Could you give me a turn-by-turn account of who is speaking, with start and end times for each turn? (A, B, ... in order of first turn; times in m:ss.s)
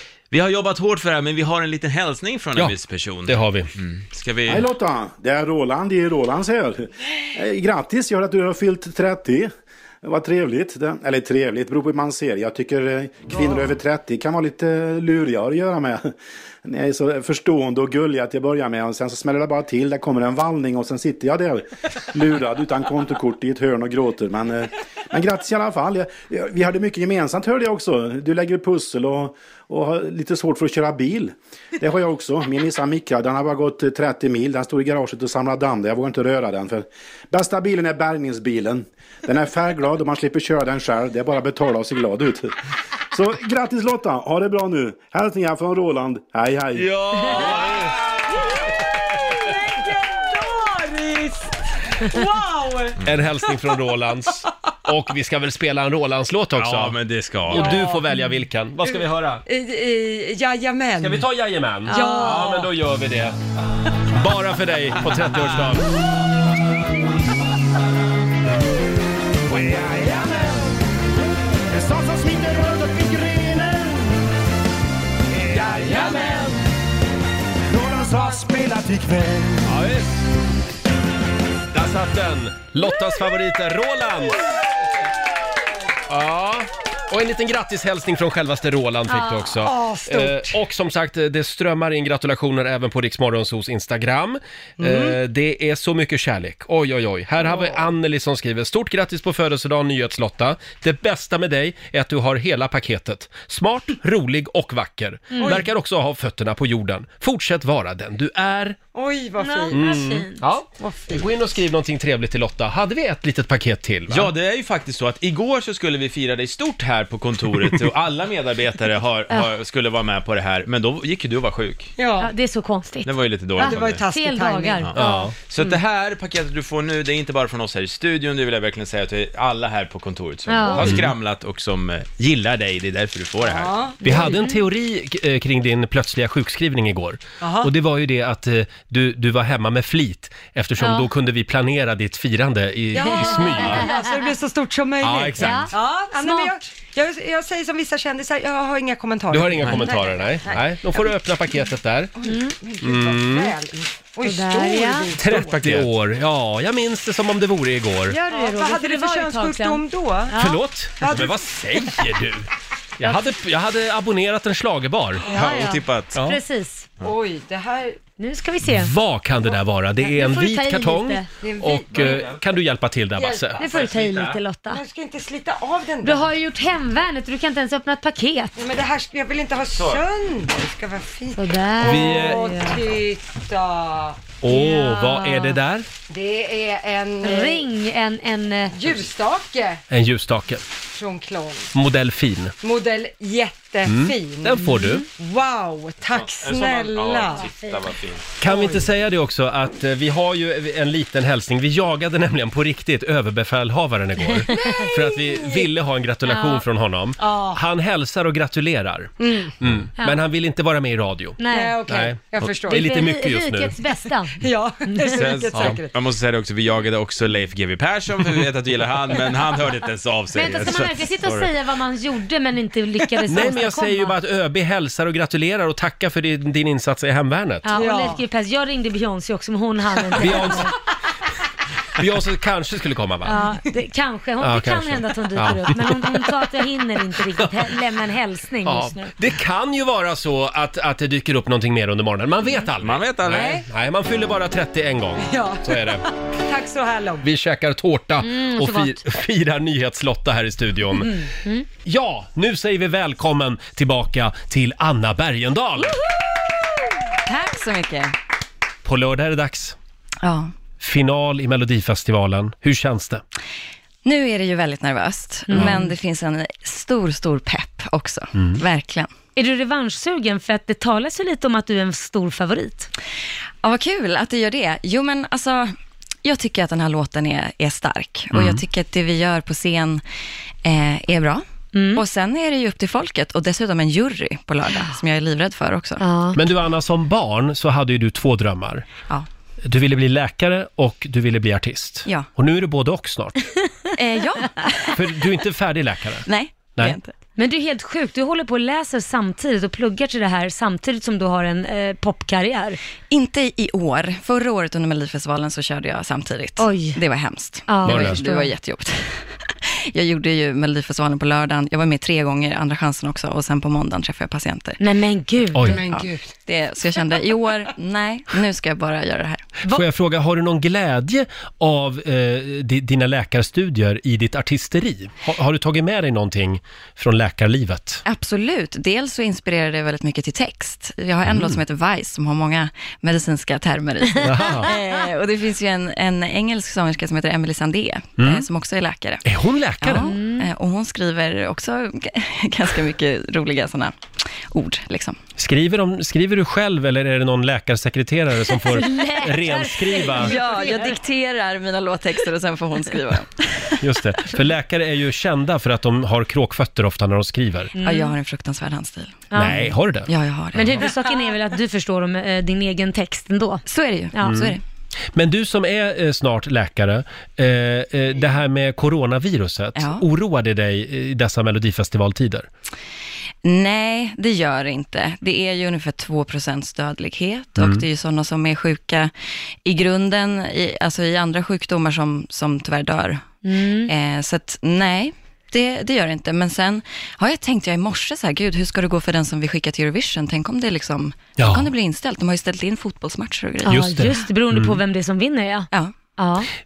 0:00.3-0:04.6 A
0:03.3-0:03.7 B
0:04.5-0:09.5 C
0:10.0-0:16.1 C
0:16.6-0:42.5 C
0:43.1-0:46.9 C
0:46.8-0:47.9 B
0:49.1-0:53.0 D
0:53.0-0:59.4 B
0:56.6-0:57.8 A
0:57.5-0:58.0 D
0:58.9-1:01.2 D
1:01.0-1:03.4 B
1:01.9-1:02.5 E
1:01.9-1:02.7 D
1:04.1-1:05.9 B
1:09.5-1:10.2 C
1:11.7-1:14.0 C
1:15.5-1:16.3 C
1:17.7-1:19.6 C
1:19.7-1:20.0 B
1:21.7-1:24.5 B
1:26.1-1:48.8 B
1:29.1-1:29.5 E
1:29.6-1:30.6 D
1:34.8-1:35.2 D
1:37.5-1:37.8 D
1:45.3-1:45.6 E
1:45.4-1:45.6 D
1:48.9-1:49.8 D
1:49.4-1:50.4 E
1:49.7-1:54.3 B
1:50.8-1:51.3 D
1:54.1-2:01.9 A
2:02.0-2:02.3 D
2:02.2-2:05.3 E
2:03.0-2:04.0 A
2:03.6-2:04.9 D
2:04.8-2:13.8 A
2:05.0-2:05.3 B
2:10.5-2:11.0 E
2:10.8-2:11.1 B
2:13.4-2:14.3 D
2:14.0-2:23.9 B
2:14.1-2:14.6 E
2:17.4-2:17.7 D
2:20.8-2:21.1 E
2:22.9-2:30.7 D
2:23.1-2:24.0 E
2:25.0-2:25.7 B
2:25.4-2:26.6 E
2:29.3-2:32.2 B
2:32.2-2:35.9 D
2:32.2-2:32.6 E
2:32.8-2:33.6 B
2:34.2-2:35.1 E
2:35.2-2:38.2 B
2:38.1-2:40.6 E
2:38.2-2:40.4 D
2:40.4-2:42.5 B
2:41.0-2:41.4 D
2:43.0-2:45.3 B
2:45.3-2:46.2 A
2:45.3-2:46.9 E
2:46.1-2:46.4 B
2:47.0-2:48.0 D
2:48.2-2:48.9 E
2:48.6-2:53.6 B
2:50.1-2:51.3 E
2:51.4-2:52.2 D
2:51.9-2:52.4 A
2:53.2-2:53.7 D
2:53.6-2:54.4 A
2:53.6-2:54.8 E
2:54.7-2:56.3 D
2:56.0-2:58.6 E
2:58.6-3:04.2 D
2:59.7-3:00.0 A
3:01.4-3:02.8 E
3:01.8-3:02.4 B
3:04.4-3:05.9 B
3:04.5-3:05.6 E
3:06.1-3:07.7 D
3:07.2-3:08.8 E
3:08.7-3:09.8 D
3:09.9-3:10.6 B
3:10.9-3:11.7 D
3:11.7-3:12.6 B
3:12.6-3:17.5 D
3:13.8-3:15.0 B
3:14.7-3:15.0 E
3:16.1-3:18.2 A
3:18.4-3:33.8 B
3:18.4-3:18.8 D
3:24.5-3:25.7 D
3:26.3-3:26.6 E
3:27.2-3:27.6 D
3:29.2-3:29.5 D
3:31.4-3:31.8 E
3:31.5-3:32.9 D
3:32.7-3:34.4 E
3:34.4-3:35.9 D
3:34.9-3:35.3 E
3:35.1-3:41.5 A
3:35.5-3:35.8 B
3:40.4-3:44.2 E
3:43.3-3:47.7 B
3:47.6-3:50.7 E
3:47.7-3:48.2 D
3:50.2-3:50.6 B
3:52.0-3:53.4 B
3:53.2-3:59.1 E
3:54.4-3:56.3 B
3:58.6-4:06.0 B
4:02.8-4:03.6 A
4:03.3-4:03.6 D
4:05.2-4:07.2 D
4:07.2-4:11.1 B
4:08.2-4:09.0 E
4:11.1-4:11.7 E
4:11.8-4:16.0 B
4:17.2-4:18.1 F
4:18.8-4:19.8 B
4:20.2-4:20.5 F
4:20.8-4:23.2 B
4:24.0-4:29.1 F
4:25.5-4:25.9 E
4:25.5-4:25.9 B
4:28.3-4:28.6 B
4:29.4-4:32.9 E
4:33.6-4:35.7 F
4:36.2-4:40.0 F
4:38.3-4:38.6 B
4:40.6-4:46.1 F
4:41.7-4:42.0 E
4:46.0-4:46.4 E
4:46.4-4:48.9 B
4:49.6-4:53.4 B
4:54.0-4:55.0 F
4:54.9-4:57.0 B
4:56.3-4:57.1 F
4:57.4-5:02.8 E
5:03.1-5:09.3 F
5:06.6-5:07.0 E
5:07.7-5:08.6 E
5:07.8-5:08.2 B
5:09.9-5:14.8 F
5:14.8-5:15.9 E
5:15.5-5:15.8 B
5:15.6-5:16.3 D
5:15.8-5:19.5 F
5:19.7-5:28.0 B
5:28.0-5:39.2 F
5:31.3-5:31.6 B
5:34.2-5:34.7 B
5:38.2-5:38.5 B
5:39.2-5:40.1 B
5:39.8-5:45.2 F
5:40.0-5:40.5 E
5:45.4-5:50.4 B
5:48.6-5:51.0 E
5:50.2-5:53.7 F
5:53.8-5:57.7 B
5:57.8-5:58.2 E
5:57.8-5:59.3 F
5:59.3-5:59.7 E
5:59.4-6:00.1 B
6:00.1-6:00.9 F
6:00.5-6:04.5 E
6:03.7-6:04.6 F
6:04.2-6:04.6 B
6:05.1-6:12.5 B
6:09.8-6:10.0 F
6:13.4-6:19.1 F
6:17.6-6:17.8 B
6:19.6-6:34.3 F
6:23.4-6:23.9 E
6:31.4-6:31.7 B
6:33.6-6:36.5 E
6:33.7-6:34.8 B